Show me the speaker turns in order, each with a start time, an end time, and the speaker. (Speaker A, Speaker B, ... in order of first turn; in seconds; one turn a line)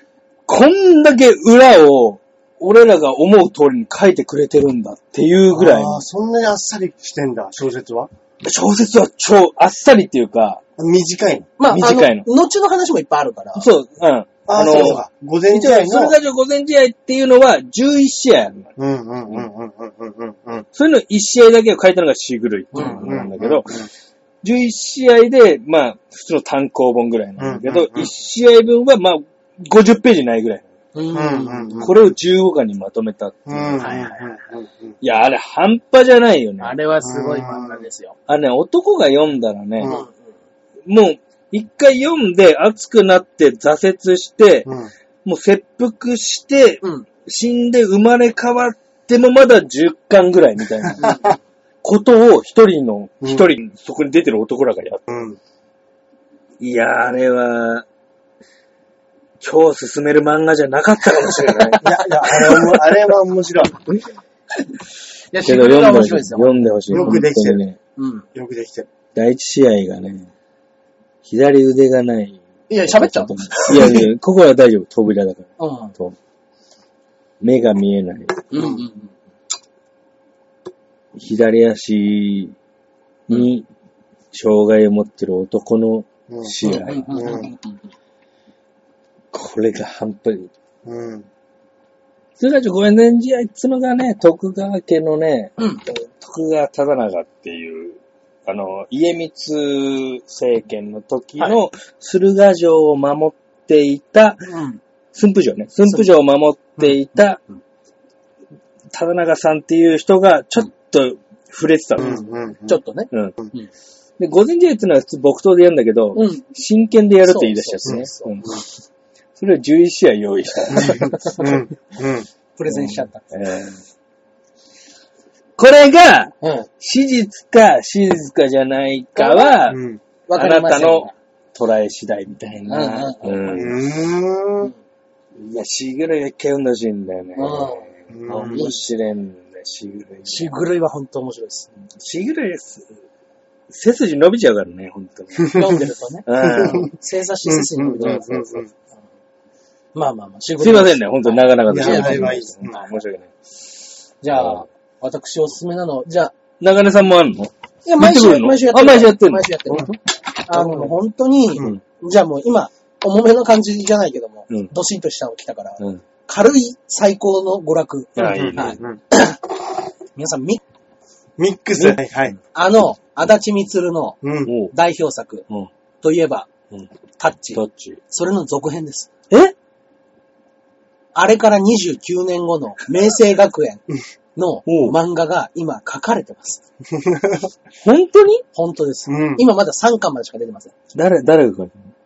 Speaker A: 0.5-6.0
Speaker B: 5.5-8.1
Speaker A: 8.4-10.6
Speaker B: 10.8-11.5
Speaker C: 11.6-13.7
Speaker A: 11.7-12.3
Speaker A: 13.6-18.7
Speaker B: 14.5-16.2
Speaker B: 18.8-20.7
Speaker A: 20.8-23.9
Speaker C: 22.7-23.2
Speaker B: 22.8-23.9
Speaker A: 24.4-30.7
Speaker B: 27.4-28.1
Speaker C: 30.9-31.9
Speaker B: 31.1-31.9
Speaker A: 31.8-33.9
Speaker B: 33.5-34.9
Speaker C: 33.8-34.5
Speaker A: 35.0-36.8
Speaker C: 36.6-38.2
Speaker B: 37.0-37.8
Speaker A: 38.3-40.0
Speaker B: 39.8-40.1
Speaker C: 39.8-40.2
Speaker A: 40.9-44.7
Speaker B: 44.7-44.9
Speaker A: 45.2-51.3
Speaker C: 46.8-47.1
Speaker C: 51.0-51.3
Speaker A: 51.8-55.2
Speaker B: 53.2-53.5
Speaker B: 55.1-55.4
Speaker A: 56.6-57.9
Speaker A: 59.4-62.8
Speaker B: 61.8-63.8
Speaker C: 65.3-67.2
Speaker A: 65.4-67.8
Speaker B: 66.9-67.6
Speaker C: 68.0-68.3
Speaker B: 68.3-68.9
Speaker A: 69.2-70.3
Speaker A: 71.2-76.2
Speaker C: 72.7-74.1
Speaker C: 75.6-75.9
Speaker A: 77.4-78.5
Speaker C: 78.5-79.1
Speaker A: 81.2-82.5
Speaker A: 83.3-83.7
Speaker A: 84.3-87.4
Speaker B: 86.3-87.5
Speaker C: 86.6-87.8
Speaker A: 89.3-90.5
Speaker B: 90.8-91.3
Speaker A: 92.4-104.5
Speaker C: 95.6-95.8
Speaker C: 104.5-104.8
Speaker A: 105.1-107.4
Speaker A: 108.9-112.2
Speaker B: 112.0-112.8
Speaker C: 112.7-113.7
Speaker A: 113.1-113.4
Speaker A: 114.2-118.6
Speaker C: 116.2-116.4
Speaker C: 117.2-118.6
Speaker A: 119.4-121.3
Speaker B: 120.7-122.3
Speaker C: 120.8-121.6
Speaker C: 122.6-123.2
Speaker A: 122.7-123.8
Speaker A: 125.6-129.8
Speaker C: 126.4-126.7
Speaker C: 129.2-129.6
Speaker B: 129.7-130.0
Speaker C: 130.3-131.1
Speaker A: 130.3-133.8
Speaker C: 132.7-133.6
Speaker B: 133.4-134.7
Speaker A: 135.4-140.6
Speaker C: 137.4-138.9
Speaker B: 138.1-138.7
Speaker C: 140.3-141.7
Speaker A: 142.0-142.9
Speaker A: 143.7-145.6
Speaker C: 145.5-148.7
Speaker A: 146.3-146.9
Speaker B: 146.4-146.9
Speaker B: 147.4-148.7
Speaker C: 149.9-153.0
Speaker A: 150.6-153.3
Speaker B: 151.7-152.8
Speaker C: 154.2-156.3
Speaker A: 154.3-154.7
Speaker A: 156.6-159.8
Speaker C: 157.8-169.4
Speaker A: 160.5-160.9
Speaker A: 168.2-168.8
Speaker B: 168.2-169.0
Speaker C: 170.2-170.6
Speaker B: 171.4-172.4
Speaker C: 172.5-175.4
Speaker B: 174.2-174.5
Speaker A: 174.5-174.7
Speaker C: 176.0-176.5
Speaker C: 177.2-179.1
Speaker A: 177.6-178.0
Speaker C: 181.2-183.8
Speaker C: 184.4-186.6
Speaker A: 184.7-185.0
Speaker B: 186.9-187.5
Speaker A: 187.8-188.4
Speaker C: 188.5-190.7
Speaker B: 189.1-189.4
Speaker A: 190.9-191.8